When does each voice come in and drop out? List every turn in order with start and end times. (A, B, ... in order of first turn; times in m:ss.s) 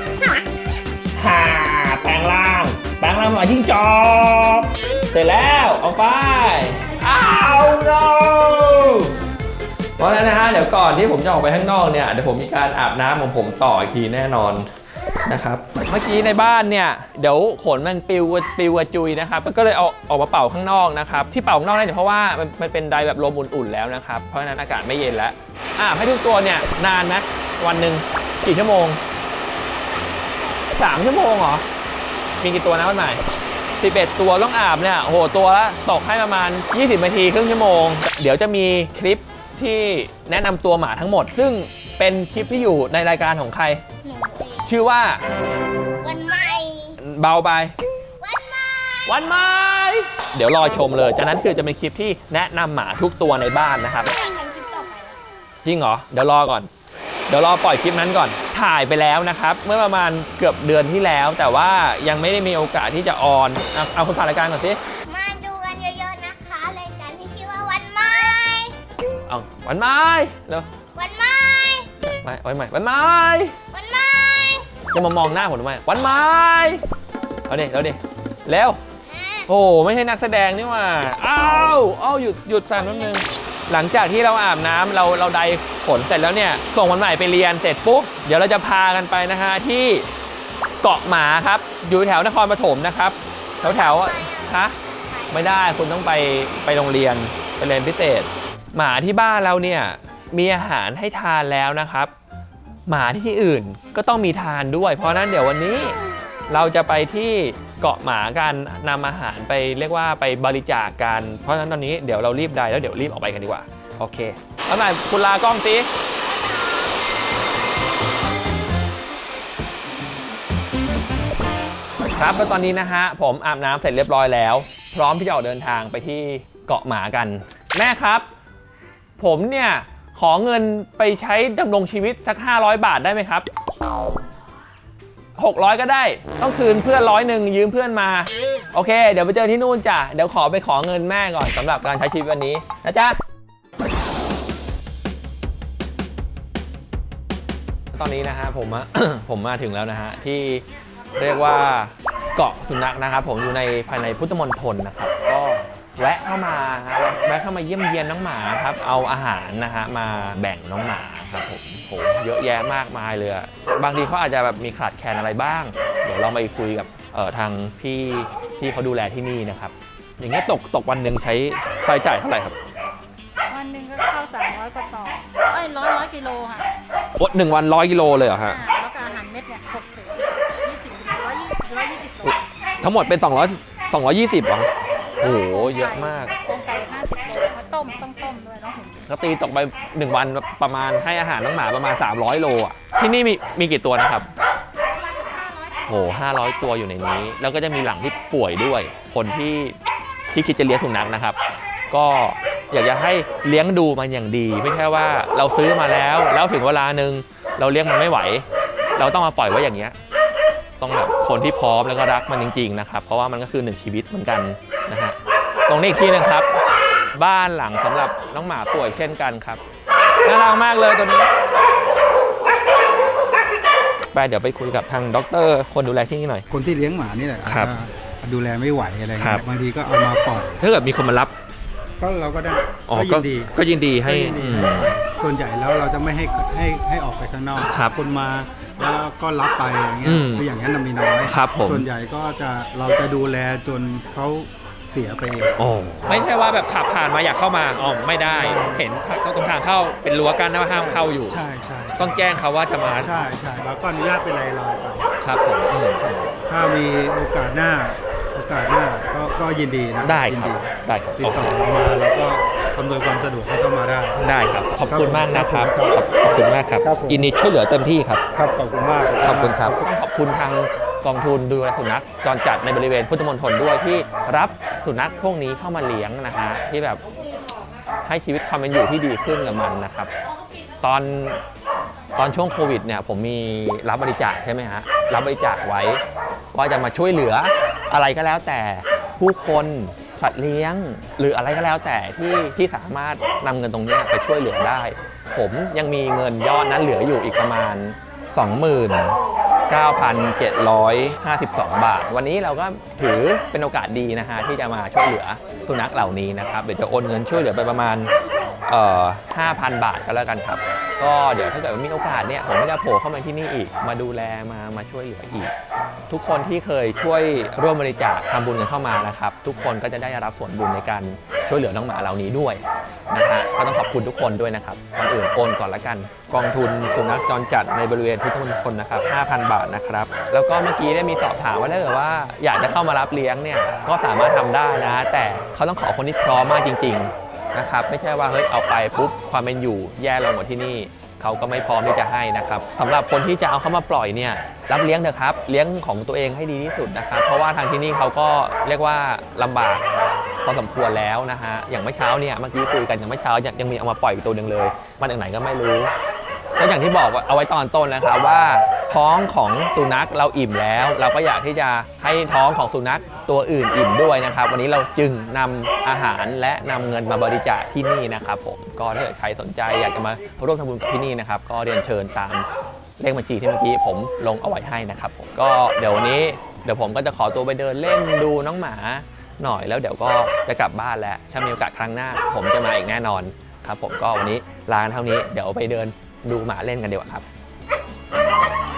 0:01.2-0:09.2 A
0:10.0-0:14.7 A
0:15.3-0:29.0 A
0:30.8-0:31.6 A
0:32.4-0:33.2 A
0:33.8-0:43.8 A
0:44.0-0:44.8 B
0:44.6-0:45.2 A
0:46.0-0:47.0 B
0:47.0-0:47.7 A
0:48.2-0:49.2 B
0:49.1-0:54.2 A
0:54.1-0:55.2 B
0:55.6-0:56.7 A
0:57.3-1:04.8 A
1:05.1-1:08.7 B
1:09.3-1:10.7 A
1:11.0-1:11.9 B
1:12.0-1:13.6 A
1:13.7-1:14.7 B
1:14.9-1:16.8 A
1:17.5-1:18.8 A
1:19.1-1:19.5 B
1:19.5-1:30.1 A
1:22.8-1:23.2 B
1:30.8-1:34.8 A
1:33.6-1:35.5 B
1:35.3-1:42.1 A
1:42.9-1:46.0 A
1:46.5-1:55.9 A
2:02.1-2:08.3 A
2:09.2-2:13.5 A
2:15.4-2:23.2 A
2:27.9-2:30.6 A
2:31.2-2:52.6 A
2:53.5-2:56.7 C
2:57.2-2:58.6 A
2:58.5-3:02.4 C
3:02.2-3:04.7 A
3:05.2-3:06.3 A
3:05.2-3:09.1 C
3:09.1-3:14.3 A
3:15.9-3:19.8 A
3:20.3-3:21.4 A
3:21.9-3:28.4 A
3:29.0-3:30.0 A
3:30.8-3:35.2 A
3:35.7-3:36.5 A
3:37.1-3:39.6 A
3:40.2-3:41.3 A
3:44.1-3:46.5 A
3:46.5-3:50.6 D
3:47.5-3:47.7 A
3:49.2-3:49.4 A
3:50.6-3:51.3 A
3:52.0-3:53.5 D
3:52.9-3:54.9 A
3:54.0-4:06.3 D
3:57.6-3:57.9 A
4:00.0-4:00.5 A
4:01.2-4:01.9 A
4:05.6-4:11.4 A
4:08.2-4:08.9 D
4:10.7-4:12.3 D
4:12.0-4:13.2 A
4:13.0-4:15.1 D
4:15.2-4:16.3 A
4:16.0-4:24.2 D
4:20.0-4:21.6 A
4:24.2-4:28.2 A
4:24.8-4:26.0 D
4:26.8-4:27.2 D
4:28.3-4:29.9 D
4:29.2-4:37.0 A
4:38.0-4:40.1 A
4:40.8-4:41.4 A
4:42.2-4:46.0 A
4:46.5-4:59.2 A
4:59.7-5:08.1 A
5:08.7-5:15.5 A
5:16.1-5:49.8 A
5:50.4-5:55.9 A
5:56.6-6:12.5 A
6:13.0-6:27.2 A